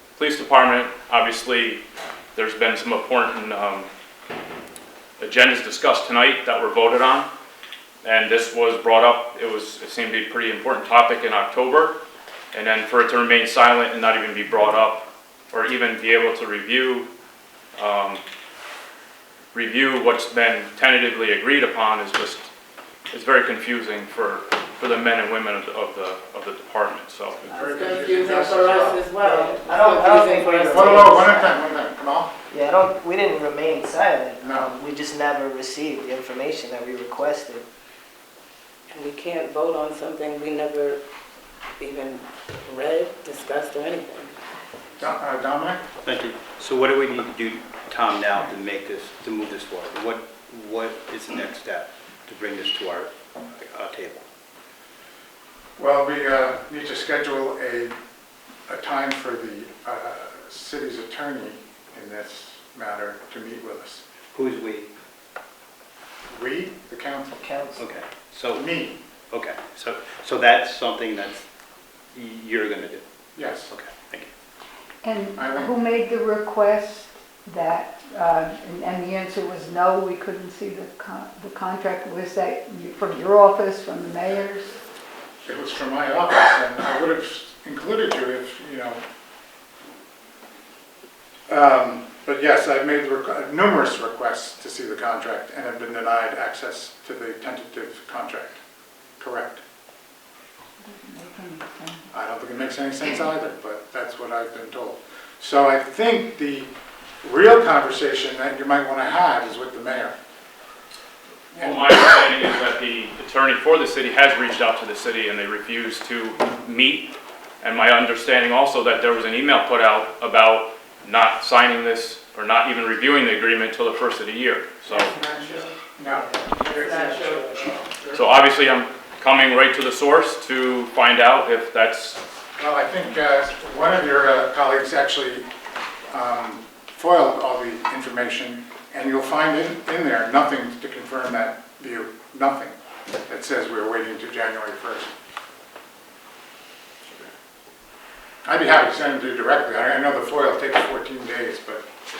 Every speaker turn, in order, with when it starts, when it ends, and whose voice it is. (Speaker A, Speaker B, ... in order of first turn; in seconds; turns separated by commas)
Speaker A: 0.1-1.8, Speaker A: 2.3-3.9, Speaker A: 5.2-7.3, Speaker A: 8.0-12.0, Speaker A: 12.5-17.1, Speaker A: 17.8-18.2, Speaker A: 19.5-22.5, Speaker A: 23.1-27.4, Speaker B: 27.4-29.1, Speaker C: 27.5-28.2, Speaker D: 27.7-31.4, Speaker C: 29.2-31.6, Speaker B: 30.7-32.3, Speaker C: 32.5-37.6, Speaker B: 34.4-34.7, Speaker D: 38.9-41.0, Speaker D: 41.8-44.3, Speaker B: 45.0-45.8, Speaker E: 46.0-54.2, Speaker B: 55.8-57.9, Speaker B: 58.7-64.0, Speaker E: 64.3-64.9, Speaker B: 66.3-67.5, Speaker C: 67.3-67.8, Speaker E: 67.8-68.7, Speaker B: 68.5-69.0, Speaker E: 69.3-71.4, Speaker E: 72.1-74.3, Speaker B: 73.3-73.7, Speaker F: 75.0-84.8, Speaker B: 75.4-75.8, Speaker B: 85.4-89.0, Speaker B: 91.5-98.6, Speaker B: 99.2-99.6, Speaker F: 100.8-102.1, Speaker B: 102.1-106.7, Speaker B: 107.2-110.1, Speaker A: 111.5-125.1, Speaker B: 111.5-112.0, Speaker C: 125.0-127.6, Speaker B: 125.2-128.2, Speaker D: 126.6-127.8, Speaker A: 128.1-132.2, Speaker B: 132.6-135.5, Speaker B: 136.1-142.7, Speaker B: 143.3-145.1, Speaker A: 147.0-147.3, Speaker B: 148.4-151.8